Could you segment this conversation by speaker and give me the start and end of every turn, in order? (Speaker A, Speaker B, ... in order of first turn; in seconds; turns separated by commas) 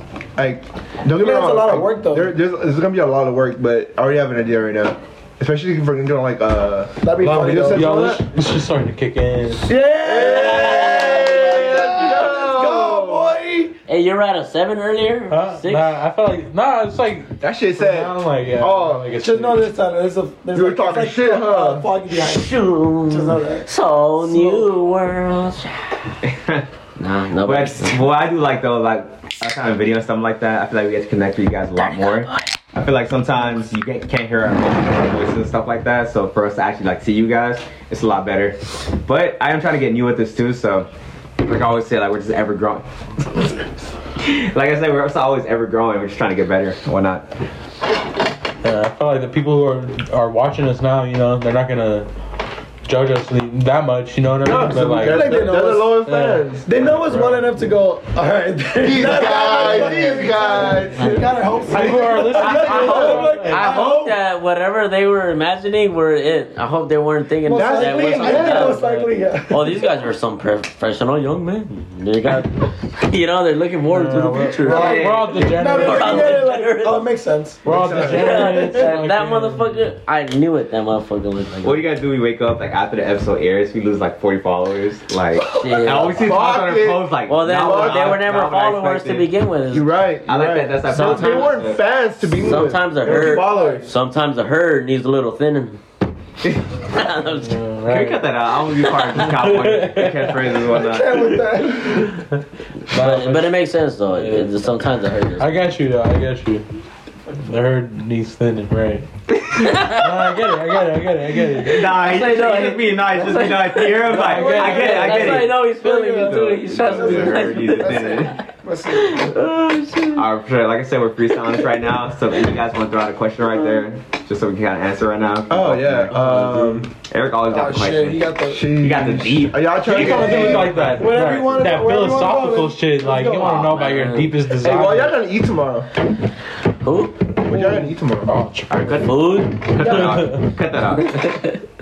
Speaker A: 0.4-8.3, Speaker B: 1.1-2.3, Speaker B: 7.0-8.2, Speaker C: 7.2-9.7, Speaker B: 9.7-13.7, Speaker A: 9.9-13.4, Speaker D: 10.2-12.1, Speaker D: 13.9-16.0, Speaker C: 15.3-19.6, Speaker A: 17.4-19.1, Speaker B: 19.2-22.6, Speaker A: 20.5-21.9, Speaker D: 22.1-26.0, Speaker B: 23.1-23.7, Speaker B: 24.2-24.7, Speaker E: 26.2-26.7, Speaker D: 27.0-28.0, Speaker E: 27.4-40.9, Speaker E: 41.4-42.9, Speaker E: 44.2-47.3, Speaker C: 48.6-52.1, Speaker C: 52.9-57.5, Speaker A: 54.4-56.7, Speaker B: 54.9-56.0, Speaker B: 56.6-64.1, Speaker A: 58.8-64.0, Speaker C: 61.7-63.8, Speaker D: 63.3-77.1, Speaker B: 67.5-69.8, Speaker A: 67.5-68.8, Speaker C: 73.9-76.5, Speaker E: 74.6-75.4, Speaker B: 74.7-78.9, Speaker C: 77.6-79.8, Speaker A: 77.7-78.4, Speaker D: 78.0-81.8, Speaker E: 81.6-89.3, Speaker D: 85.5-86.3, Speaker A: 85.9-88.1, Speaker D: 87.3-89.9, Speaker A: 89.7-93.9, Speaker E: 90.3-91.8, Speaker D: 90.9-91.6, Speaker D: 92.3-95.8, Speaker B: 93.1-93.8, Speaker E: 96.4-96.7, Speaker D: 96.9-97.6, Speaker C: 97.3-98.2, Speaker E: 97.9-101.4, Speaker C: 99.1-100.6, Speaker B: 100.7-102.2, Speaker C: 101.9-103.5, Speaker D: 102.9-105.7, Speaker C: 104.1-104.7, Speaker C: 105.4-106.7, Speaker C: 107.3-109.1, Speaker E: 109.4-109.7, Speaker D: 109.6-110.2, Speaker C: 109.8-112.0, Speaker E: 111.6-118.4, Speaker D: 111.8-118.3, Speaker B: 114.1-119.4, Speaker C: 114.2-115.1, Speaker D: 118.9-120.3, Speaker E: 120.1-126.2, Speaker A: 125.5-126.9, Speaker D: 126.1-126.8, Speaker E: 127.0-131.1, Speaker B: 127.5-128.7, Speaker A: 128.5-131.5, Speaker C: 129.9-135.2, Speaker B: 129.9-133.7, Speaker D: 133.4-134.4, Speaker A: 134.6-135.9, Speaker D: 136.8-137.3, Speaker A: 137.4-138.3, Speaker B: 137.5-137.9, Speaker C: 138.3-139.1, Speaker E: 138.7-141.2, Speaker D: 139.0-140.2, Speaker C: 139.8-140.5, Speaker D: 141.0-141.6